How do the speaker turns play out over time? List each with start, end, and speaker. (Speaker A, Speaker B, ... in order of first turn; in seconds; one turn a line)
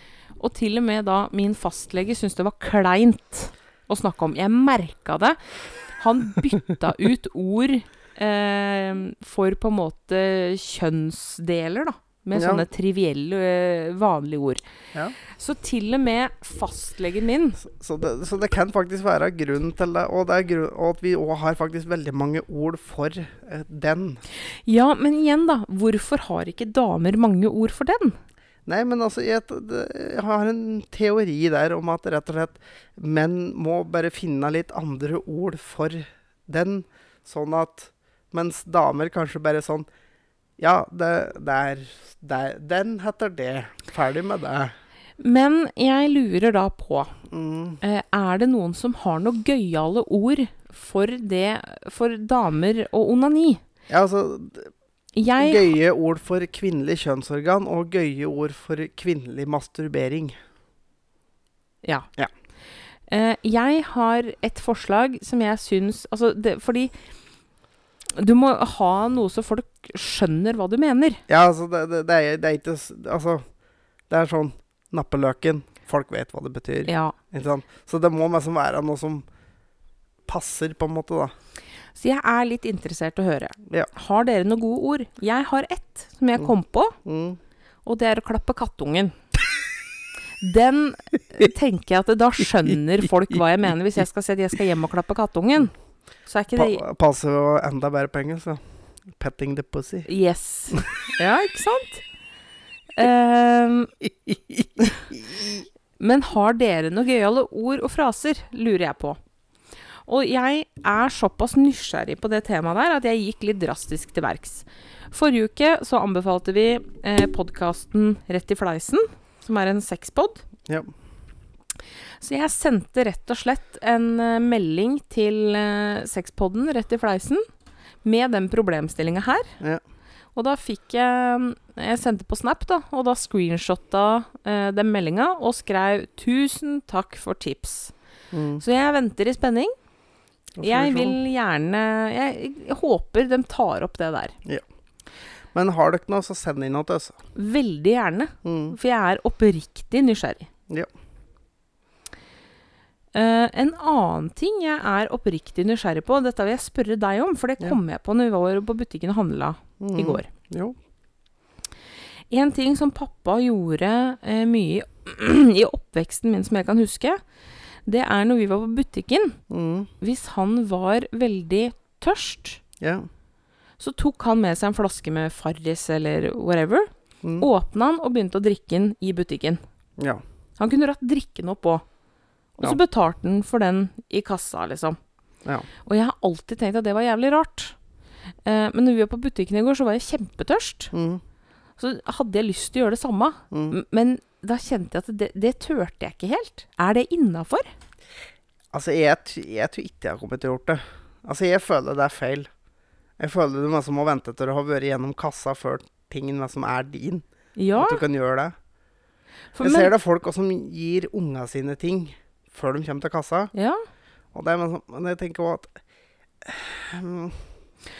Speaker A: 0.4-14.6
Speaker B: 12.3-12.7
Speaker A: 15.2-17.6
Speaker B: 17.6-24.2
Speaker A: 24.6-28.2
Speaker B: 28.6-39.9
Speaker B: 40.6-44.7
Speaker A: 45.2-47.2
Speaker B: 47.3-47.8
Speaker A: 47.8-53.6
Speaker B: 53.9-54.7
Speaker A: 55.1-55.7
Speaker B: 55.4-60.4
Speaker A: 61.8-62.1
Speaker A: 63.1-67.0
Speaker A: 68.1-71.2
Speaker B: 71.3-73.5
Speaker B: 74.1-79.2
Speaker A: 76.8-77.2
Speaker B: 80.3-81.3
Speaker A: 81.9-87.0
Speaker B: 87.0-87.4
Speaker A: 87.8-89.2
Speaker A: 90.4-96.8
Speaker B: 96.5-100.1
Speaker A: 100.0-102.0
Speaker A: 102.9-104.0
Speaker B: 104.3-105.7
Speaker A: 106.0-109.2
Speaker A: 110.0-120.4
Speaker B: 120.7-120.9
Speaker A: 122.2-127.5
Speaker A: 128.0-129.6
Speaker A: 130.3-137.9
Speaker B: 138.3-138.6
Speaker A: 138.6-139.7
Speaker B: 140.6-141.2
Speaker A: 140.6-144.4
Speaker B: 145.5-147.2
Speaker A: 147.3-150.5
Speaker B: 148.4-148.8
Speaker A: 153.1-160.3
Speaker B: 159.8-160.8
Speaker A: 162.3-167.2
Speaker A: 167.8-169.4
Speaker B: 169.5-169.9
Speaker A: 170.0-172.6
Speaker B: 172.8-173.1
Speaker A: 173.8-179.6
Speaker B: 177.2-177.5
Speaker A: 180.6-181.8
Speaker A: 182.6-185.0
Speaker A: 185.8-187.8
Speaker A: 188.4-190.9
Speaker B: 190.9-191.2
Speaker A: 191.8-197.7
Speaker B: 193.5-193.8
Speaker B: 198.7-202.5
Speaker B: 203.2-208.5
Speaker A: 207.6-208.0
Speaker A: 209.5-209.9
Speaker B: 209.6-213.5
Speaker A: 213.5-213.8
Speaker B: 214.3-215.8
Speaker B: 216.4-217.5